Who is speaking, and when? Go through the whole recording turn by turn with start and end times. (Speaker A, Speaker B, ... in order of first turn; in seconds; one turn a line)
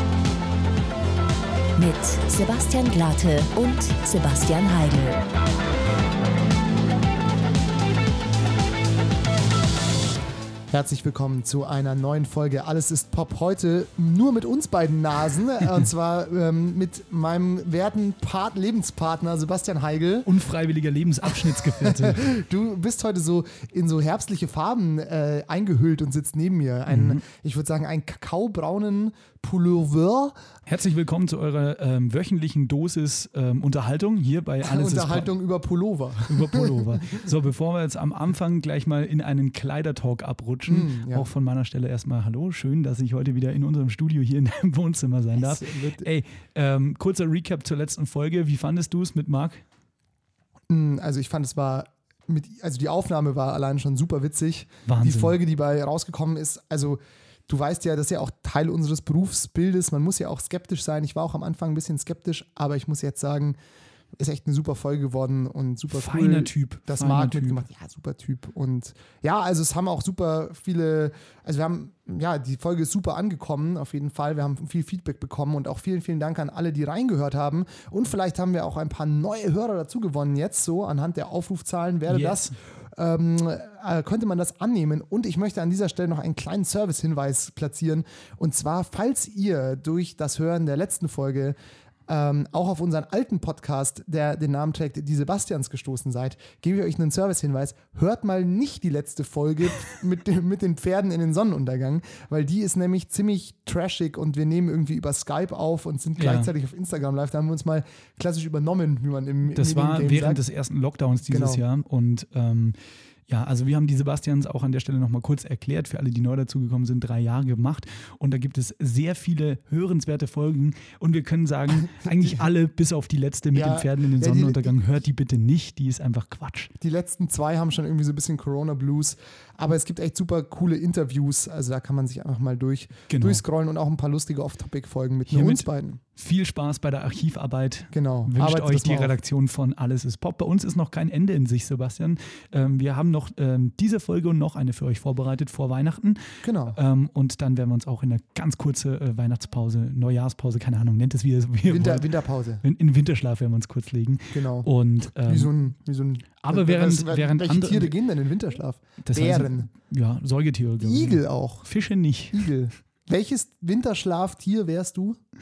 Speaker A: 1.8-5.2
Speaker B: 10.7-20.3
Speaker C: 20.2-22.3
Speaker B: 21.3-30.4
Speaker C: 26.9-27.2
Speaker C: 30.7-35.3
Speaker B: 34.6-37.2
Speaker C: 36.3-49.6
Speaker B: 40.7-41.3
Speaker B: 45.4-46.0
Speaker B: 50.7-63.5
Speaker C: 54.9-55.4
Speaker B: 64.2-91.5
Speaker C: 65.9-67.6
Speaker C: 82.1-82.5
Speaker B: 92.1-110.4
Speaker C: 106.2-106.5
Speaker C: 109.5-112.8
Speaker B: 111.3-111.6
Speaker C: 113.3-126.7
Speaker B: 121.8-122.5
Speaker B: 123.5-124.8
Speaker B: 126.8-136.0
Speaker C: 133.1-133.4
Speaker C: 135.3-152.1
Speaker B: 137.9-139.1
Speaker B: 146.4-146.8
Speaker B: 151.7-152.6
Speaker C: 152.6-155.5
Speaker B: 154.3-159.7
Speaker C: 156.4-157.9
Speaker C: 159.0-162.5
Speaker B: 160.8-161.7
Speaker B: 162.3-165.2